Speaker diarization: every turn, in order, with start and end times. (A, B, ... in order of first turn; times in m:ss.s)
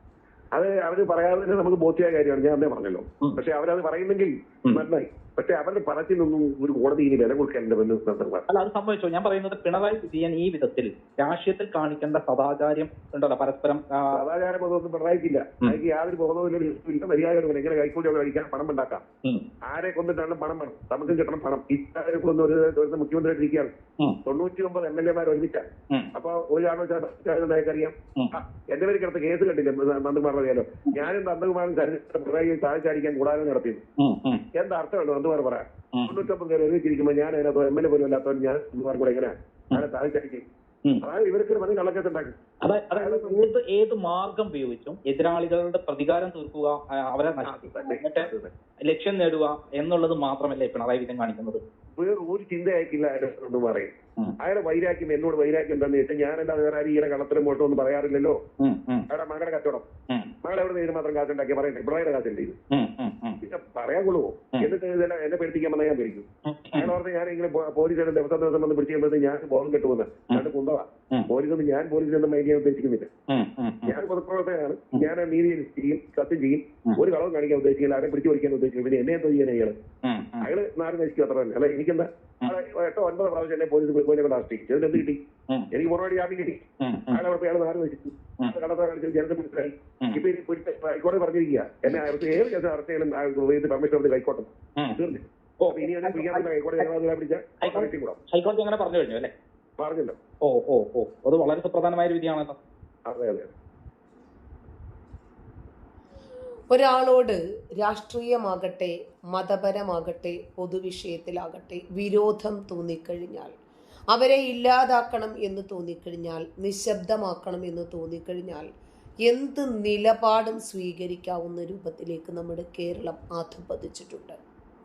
0:00.5-0:08.4 A
0:08.5-0:14.2 B
0:14.1-0:19.0 A
0:19.7-0:23.7 A
0:24.2-0:33.8 A
0:34.0-0:34.4 B
0:34.5-0:40.5 A
0:41.0-0:42.4 A
0:42.6-0:48.3 B
0:42.9-0:43.5 A
0:47.4-0:48.5 A
0:48.8-0:51.6 B
0:52.0-0:58.4 A
0:58.6-0:59.1 B
0:59.1-0:59.9 A
1:00.4-1:02.6 A
1:02.7-1:03.4 B
1:03.4-1:13.1 A
1:06.5-1:06.9 B
1:13.3-1:14.0 B
1:13.9-1:19.8 A
1:20.0-1:20.5 B
1:20.4-1:25.2 A
1:25.7-1:38.2 A
1:26.8-1:27.2 B
1:35.6-1:36.8 B
1:37.6-1:39.3 B
1:39.8-1:40.2 A
1:40.4-1:42.6 B
1:43.0-1:43.5 A
1:46.7-1:53.6 C
1:54.1-1:58.7 C
1:59.2-2:04.4 C